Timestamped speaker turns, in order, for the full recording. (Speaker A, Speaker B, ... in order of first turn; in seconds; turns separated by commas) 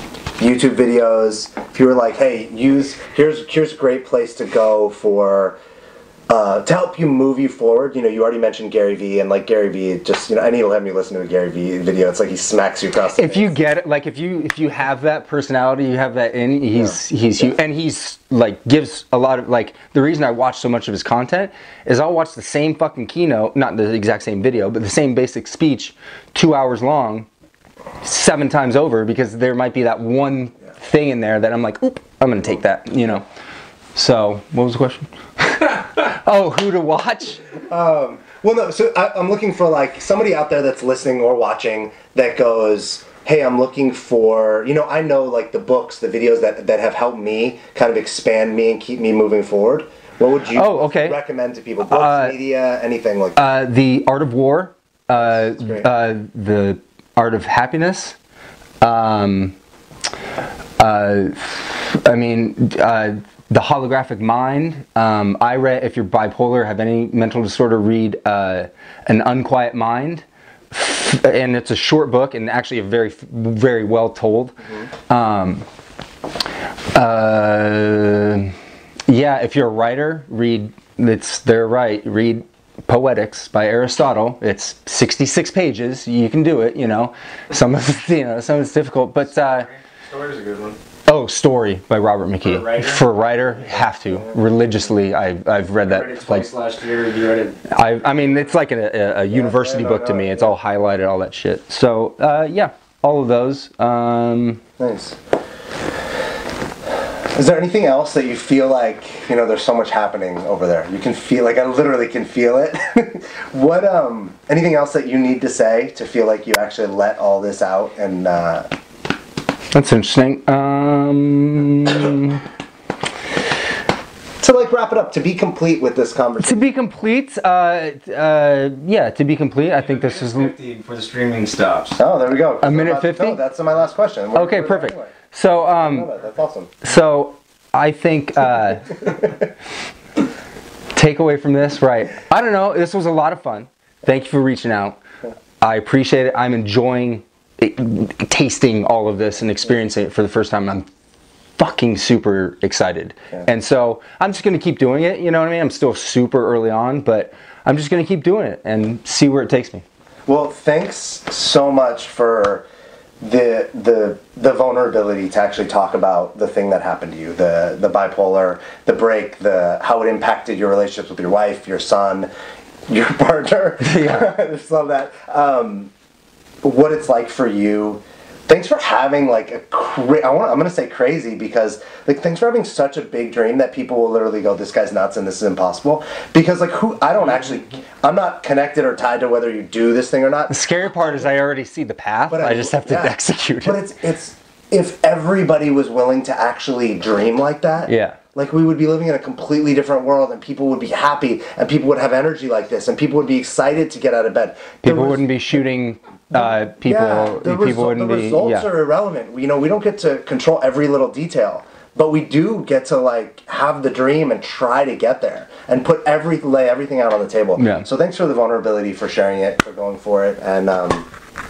Speaker A: 0.4-5.6, Speaker A: 6.3-13.6, Speaker B: 13.1-27.3, Speaker A: 16.7-17.5, Speaker B: 28.0-33.2, Speaker B: 34.0-37.5, Speaker A: 37.6-53.5, Speaker B: 50.5-51.2, Speaker B: 51.9-52.4, Speaker B: 53.4-58.2, Speaker A: 55.2-55.9, Speaker B: 58.8-59.6, Speaker B: 60.8-74.6, Speaker B: 75.1-75.7, Speaker B: 76.9-78.5, Speaker B: 79.1-89.7, Speaker C: 89.3-90.8, Speaker B: 91.1-96.5, Speaker C: 92.4-93.1, Speaker C: 95.9-97.6, Speaker B: 97.7-104.6, Speaker A: 99.3-100.5, Speaker A: 104.8-105.2, Speaker A: 107.3-118.7, Speaker B: 119.7-122.5, Speaker A: 124.4-126.6, Speaker B: 126.4-130.5, Speaker C: 129.8-132.0, Speaker A: 132.0-135.1, Speaker B: 132.6-133.4, Speaker B: 134.3-136.1, Speaker A: 135.7-136.8, Speaker B: 136.8-139.2, Speaker B: 140.9-145.0, Speaker B: 145.6-150.9, Speaker B: 151.6-159.8, Speaker A: 160.3-162.7, Speaker A: 163.2-172.3, Speaker A: 172.9-175.9, Speaker B: 173.8-174.3, Speaker A: 176.6-190.6, Speaker B: 190.5-193.8, Speaker A: 192.3-205.3, Speaker B: 197.9-198.2, Speaker B: 204.8-208.7, Speaker A: 206.3-221.1, Speaker B: 217.6-217.9